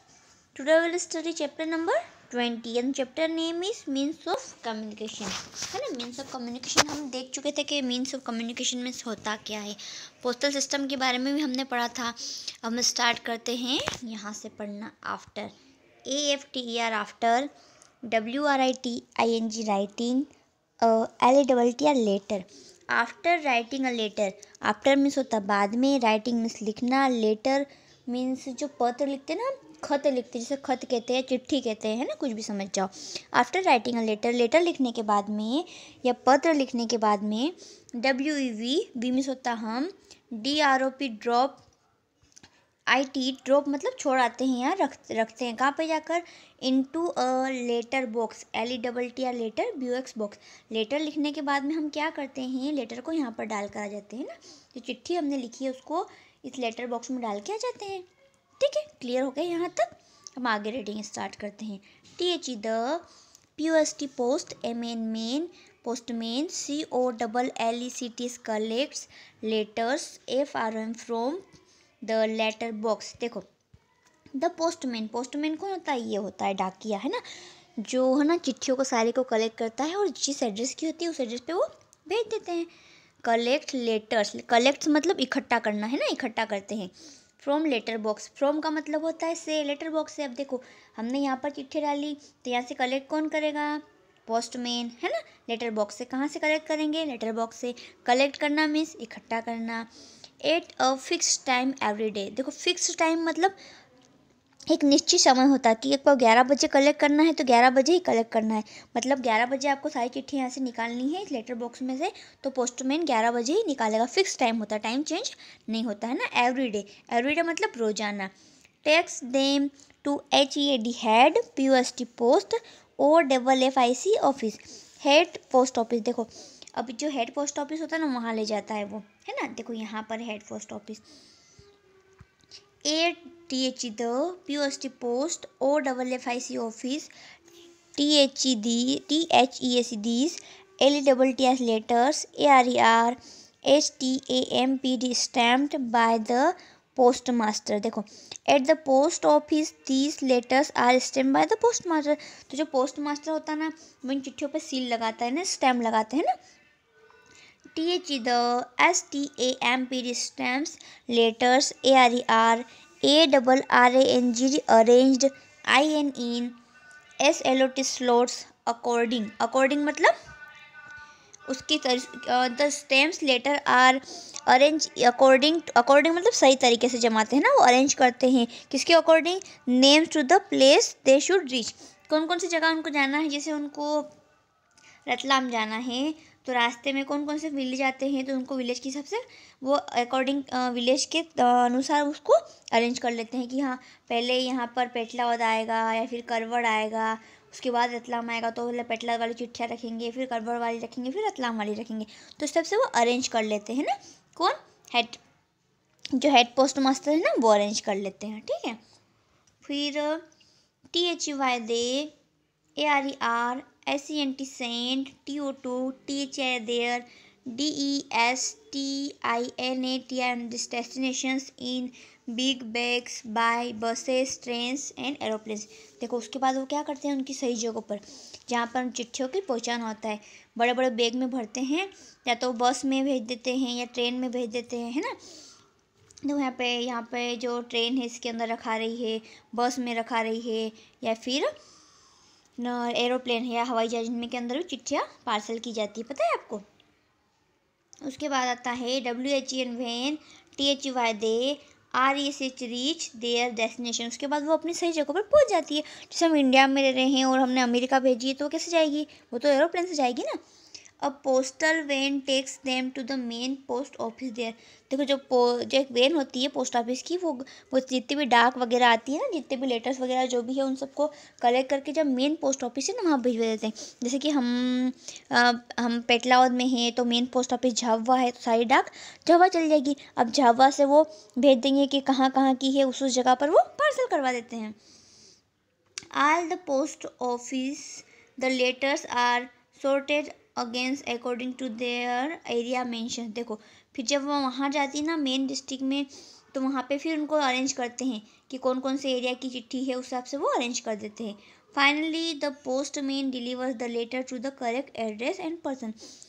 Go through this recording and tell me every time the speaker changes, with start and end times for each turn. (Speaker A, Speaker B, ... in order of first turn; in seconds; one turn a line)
Speaker A: 0.5-15.5
Speaker A: 16.1-17.5
Speaker A: 18.1-20.3
Speaker A: 20.8-41.6
Speaker A: 42.9-58.0
Speaker A: 58.6-63.0
Speaker A: 63.6-71.4
Speaker A: 72.0-73.5
Speaker A: 74.3-77.2
Speaker A: 77.8-82.7
Speaker A: 83.2-99.9
Speaker A: 100.4-103.5
Speaker A: 104.7-118.3
Speaker A: 118.8-131.0
Speaker A: 132.8-137.1
Speaker A: 137.9-156.3
Speaker A: 157.7-166.6
Speaker A: 167.2-170.1
Speaker A: 171.5-184.1
Speaker A: 185.1-205.2
Speaker A: 206.1-208.8
Speaker A: 209.6-210.2
Speaker A: 210.9-212.1
Speaker A: 212.8-235.2
Speaker A: 236.2-241.5
Speaker A: 242.6-246.6
Speaker A: 248.0-260.4
Speaker A: 261.0-284.8
Speaker A: 286.1-305.9